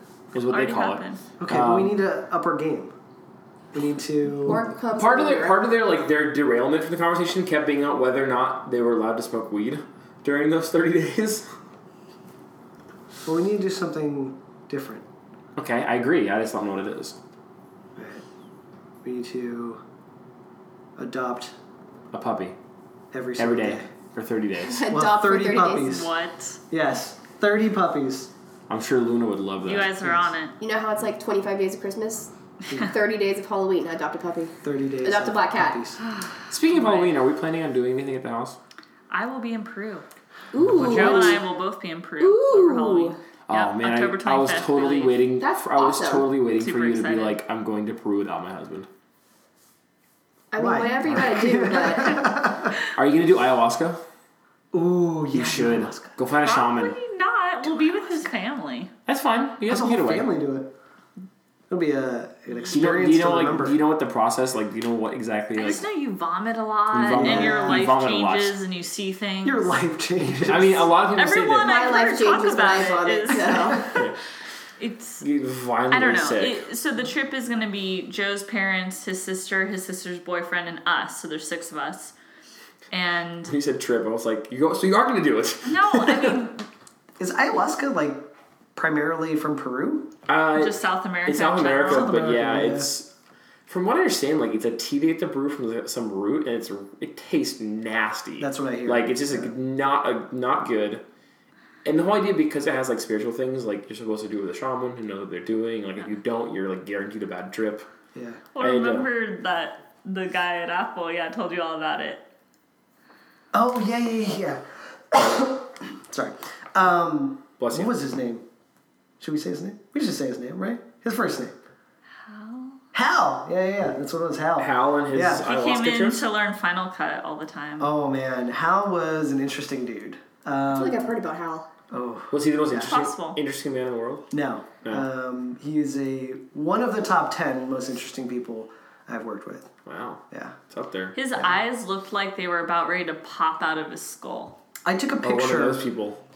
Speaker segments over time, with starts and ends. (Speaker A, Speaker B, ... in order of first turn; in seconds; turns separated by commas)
Speaker A: 0.3-2.0, Speaker B: 0.5-1.2, Speaker C: 1.4-2.9, Speaker C: 3.7-4.7, Speaker D: 4.4-5.6, Speaker A: 4.9-11.5, Speaker C: 13.2-15.1, Speaker A: 15.6-17.2, Speaker C: 18.0-18.2, Speaker C: 19.0-19.8, Speaker C: 21.0-21.6, Speaker A: 22.1-22.6, Speaker C: 23.1-23.9, Speaker A: 23.4-24.9, Speaker D: 24.6-26.0, Speaker C: 24.9-26.1, Speaker B: 25.8-26.6, Speaker C: 26.7-28.3, Speaker A: 28.7-30.1, Speaker B: 29.6-30.6, Speaker D: 30.6-35.8, Speaker C: 34.6-36.0, Speaker B: 36.0-37.1, Speaker A: 36.5-38.6, Speaker B: 39.1-40.1, Speaker D: 40.5-41.4, Speaker A: 40.8-41.3, Speaker B: 40.8-45.2, Speaker D: 42.2-43.2, Speaker A: 43.5-48.9, Speaker D: 45.4-46.3, Speaker B: 46.6-47.4, Speaker D: 50.5-52.3, Speaker C: 50.6-52.8, Speaker A: 52.9-54.0, Speaker C: 54.7-56.1, Speaker A: 55.3-57.0, Speaker B: 56.4-58.9, Speaker A: 59.1-60.3, Speaker C: 59.7-60.7, Speaker C: 61.7-63.8, Speaker A: 62.7-65.8, Speaker B: 65.5-69.7, Speaker A: 66.9-68.6, Speaker C: 67.1-67.9, Speaker C: 69.4-71.0, Speaker A: 70.4-71.9, Speaker B: 71.2-74.0, Speaker D: 71.6-74.0, Speaker A: 73.8-74.2, Speaker B: 74.8-75.2, Speaker A: 75.2-76.6, Speaker B: 75.9-82.1, Speaker B: 82.9-83.5, Speaker A: 83.5-86.4, Speaker B: 85.7-86.7, Speaker C: 87.2-90.1, Speaker A: 90.3-93.1, Speaker B: 90.6-92.1, Speaker C: 91.9-92.9, Speaker A: 93.7-101.0, Speaker C: 98.4-99.5, Speaker A: 101.8-107.9, Speaker C: 108.1-108.4, Speaker B: 108.5-112.2, Speaker A: 108.6-109.1, Speaker C: 113.5-118.4, Speaker A: 117.6-117.9, Speaker C: 119.2-121.6, Speaker B: 122.2-122.8, Speaker C: 122.9-125.5, Speaker A: 124.6-126.3, Speaker B: 125.4-127.9, Speaker C: 127.8-131.1, Speaker D: 130.7-131.7, Speaker C: 131.9-132.9, Speaker A: 132.3-134.3, Speaker B: 132.8-133.4, Speaker C: 134.3-139.7, Speaker A: 139.9-141.2, Speaker C: 140.3-140.6, Speaker B: 141.2-144.6, Speaker C: 144.8-145.8, Speaker A: 145.2-146.2